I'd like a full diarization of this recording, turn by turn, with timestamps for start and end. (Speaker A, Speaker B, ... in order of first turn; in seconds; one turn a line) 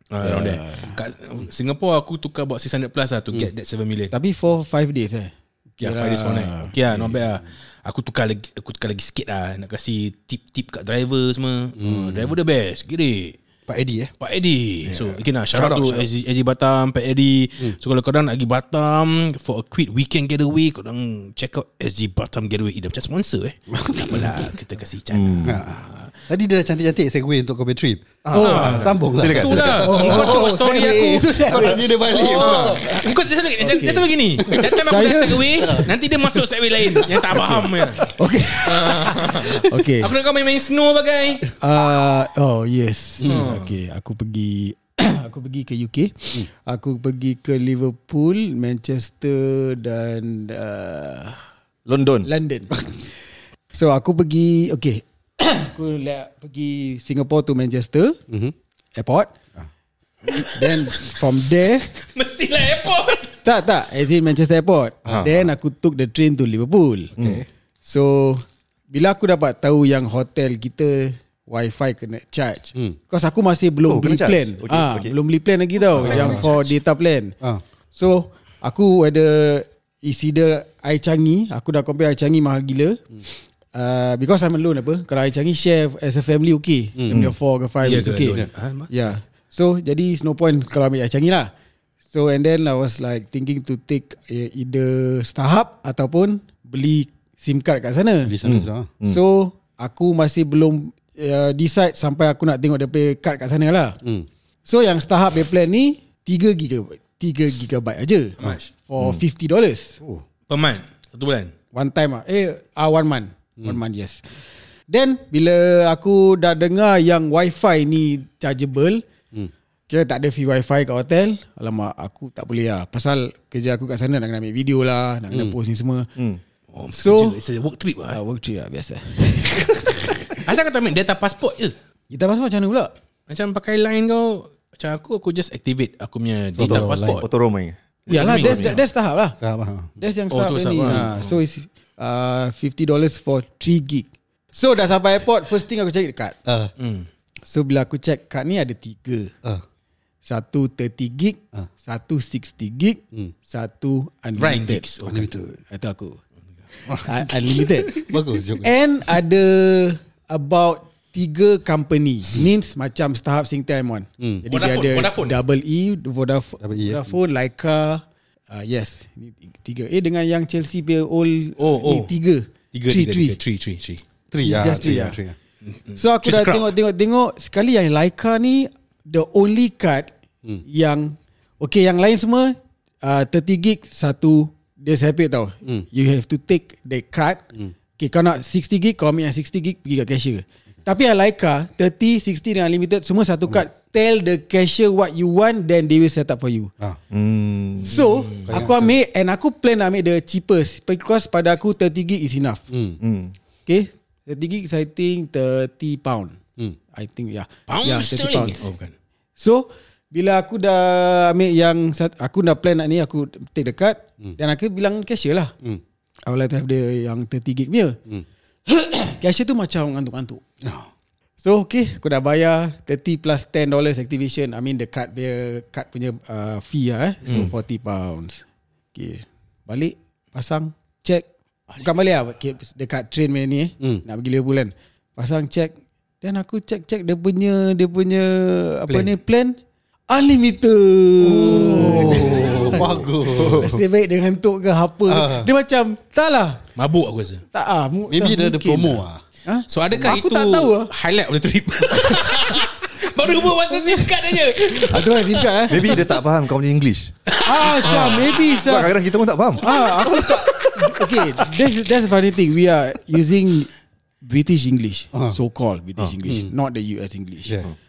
Speaker A: 0.1-4.1
Speaker B: 0.2-1.0
Speaker B: 4.1-6.7
Speaker A: 5.8-13.4
Speaker C: 6.9-7.4
Speaker C: 11.8-12.3
Speaker C: 13.7-14.1
Speaker A: 14.2-26.1
Speaker C: 14.8-16.1
Speaker C: 23.7-24.5
Speaker D: 25.1-25.6
Speaker C: 25.4-33.1
Speaker D: 28.2-30.1
Speaker B: 28.3-28.8
Speaker A: 28.3-38.1
Speaker B: 29.8-33.1
Speaker B: 33.6-34.1
Speaker C: 34.4-34.7
Speaker B: 34.8-35.9
Speaker C: 35.6-35.9
Speaker C: 37.0-37.6
Speaker B: 38.0-40.1
Speaker A: 38.6-41.5
Speaker B: 41.6-51.4
Speaker C: 43.2-43.5
Speaker A: 43.2-43.7
Speaker D: 51.9-52.3
Speaker B: 52.2-52.8
Speaker B: 53.7-58.2
Speaker C: 58.3-58.5
Speaker B: 59.0-59.3
Speaker B: 60.3-61.9
Speaker A: 60.3-61.1
Speaker A: 61.9-63.4
Speaker B: 63.4-67.1
Speaker D: 65.0-65.3
Speaker C: 65.0-65.4
Speaker D: 67.2-67.4
Speaker C: 67.2-67.5
Speaker B: 67.8-77.3
Speaker D: 73.9-75.2
Speaker C: 75.9-76.5
Speaker A: 76.0-76.5
Speaker B: 77.9-83.0
Speaker B: 83.7-91.5
Speaker C: 87.0-87.3
Speaker A: 87.8-88.9
Speaker B: 92.1-98.3
Speaker C: 98.2-98.9
Speaker D: 98.4-99.2
Speaker B: 99.0-104.0
Speaker C: 104.0-104.3
Speaker B: 104.7-110.0
Speaker A: 108.4-108.7
Speaker A: 110.5-111.5
Speaker B: 111.7-114.3
Speaker B: 114.9-119.0
Speaker B: 119.9-126.1
Speaker A: 126.7-128.2
Speaker B: 126.9-127.4
Speaker B: 128.1-130.4
Speaker A: 130.3-131.7
Speaker B: 132.1-132.9
Speaker A: 133.3-137.3
Speaker C: 136.6-137.2
Speaker D: 136.6-138.8
Speaker B: 138.1-139.3
Speaker A: 138.1-138.8
Speaker C: 139.4-140.0
Speaker B: 140.0-146.3
Speaker A: 140.3-141.4
Speaker C: 146.4-146.7
Speaker A: 146.8-147.1
Speaker B: 147.4-149.3
Speaker B: 150.2-154.8
Speaker A: 154.4-155.3
Speaker C: 155.0-155.6
Speaker B: 155.7-156.2
Speaker B: 156.8-173.4
Speaker C: 156.8-158.7
Speaker C: 164.2-164.4
Speaker A: 164.5-165.4
Speaker C: 166.6-167.1
Speaker A: 171.6-172.1
Speaker A: 172.7-174.0
Speaker C: 174.3-175.3
Speaker B: 174.4-175.2
Speaker A: 175.7-176.7
Speaker B: 175.9-180.1
Speaker B: 180.6-187.4
Speaker B: 188.0-196.7
Speaker D: 197.1-198.0
Speaker B: 197.8-202.6
Speaker A: 198.0-198.5
Speaker C: 198.4-198.9
Speaker C: 202.7-203.0
Speaker D: 203.0-203.3
Speaker B: 203.7-206.4
Speaker B: 206.9-208.7
Speaker A: 207.7-208.9
Speaker B: 209.4-215.5
Speaker B: 216.3-218.0
Speaker B: 218.7-220.4
Speaker C: 220.6-220.9
Speaker B: 221.4-231.2
Speaker B: 231.8-239.6
Speaker C: 233.8-234.0
Speaker C: 238.9-239.1
Speaker B: 240.1-246.6
Speaker C: 241.2-243.8
Speaker A: 242.0-242.9
Speaker D: 242.4-243.8
Speaker C: 245.1-245.5
Speaker A: 246.8-247.4
Speaker B: 247.5-250.9
Speaker C: 248.1-249.2
Speaker A: 249.7-256.0
Speaker B: 252.0-256.0
Speaker D: 255.7-257.1
Speaker A: 257.3-258.6
Speaker B: 257.4-258.9
Speaker D: 258.6-259.9
Speaker B: 259.6-263.7
Speaker B: 264.2-267.5
Speaker C: 266.2-266.5